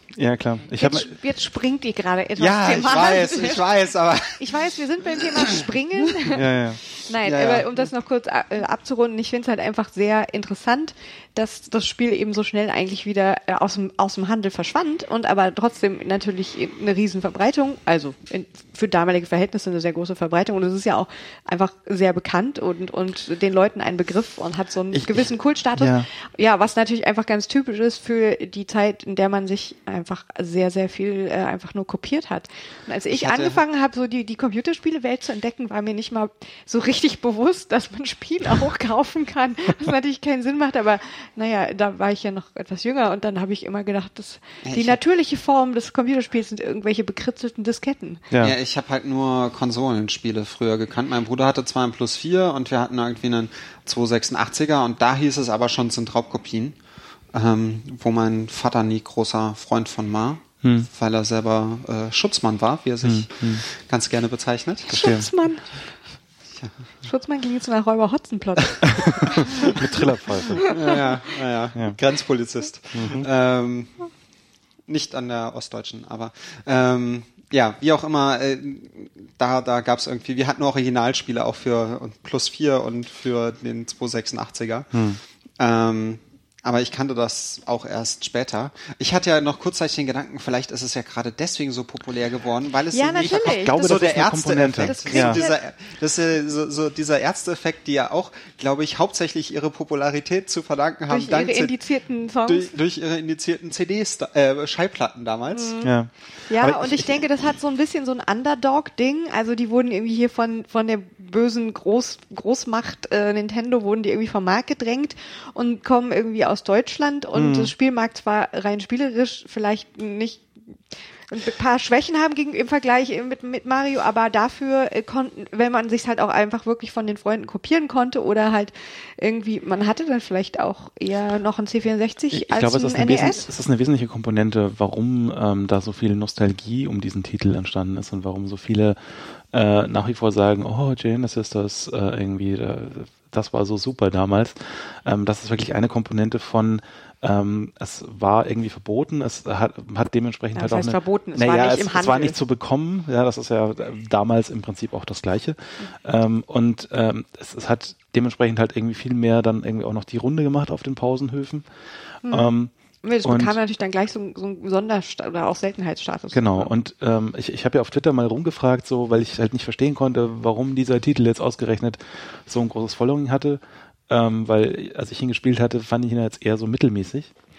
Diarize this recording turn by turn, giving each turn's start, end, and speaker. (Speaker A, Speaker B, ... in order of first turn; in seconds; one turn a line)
Speaker A: 0.1-1.1
Speaker B: 0.8-3.7
Speaker C: 2.4-4.4
Speaker B: 4.4-6.5
Speaker A: 6.3-6.8
Speaker B: 7.1-48.2
Speaker C: 7.2-7.9
Speaker A: 25.8-26.1
Speaker C: 33.1-33.6
Speaker C: 44.6-45.0
Speaker A: 48.3-48.6
Speaker C: 48.4-56.8
Speaker C: 57.3-65.0
Speaker A: 60.6-60.9
Speaker A: 63.0-63.6
Speaker B: 64.9-65.9
Speaker A: 64.9-65.3
Speaker B: 67.0-69.5
Speaker A: 68.9-70.7
Speaker C: 69.4-69.8
Speaker B: 70.6-71.2
Speaker C: 70.6-73.9
Speaker A: 72.9-73.3
Speaker C: 74.9-85.0
Speaker A: 84.9-85.2
Speaker C: 85.6-101.8
Speaker B: 92.9-94.1
Speaker A: 93.3-95.4
Speaker B: 94.8-95.6
Speaker B: 101.1-102.7
Speaker C: 102.5-105.8
Speaker B: 105.5-106.0
Speaker A: 105.8-107.1
Speaker B: 106.5-120.5
Speaker A: 117.3-117.7
Speaker B: 121.3-133.5
Speaker A: 132.3-161.7
Speaker B: 150.6-152.4
Speaker B: 162.2-162.5
Speaker A: 162.2-162.7
Speaker B: 163.0-166.7
Speaker A: 163.2-163.6
Speaker A: 166.3-177.3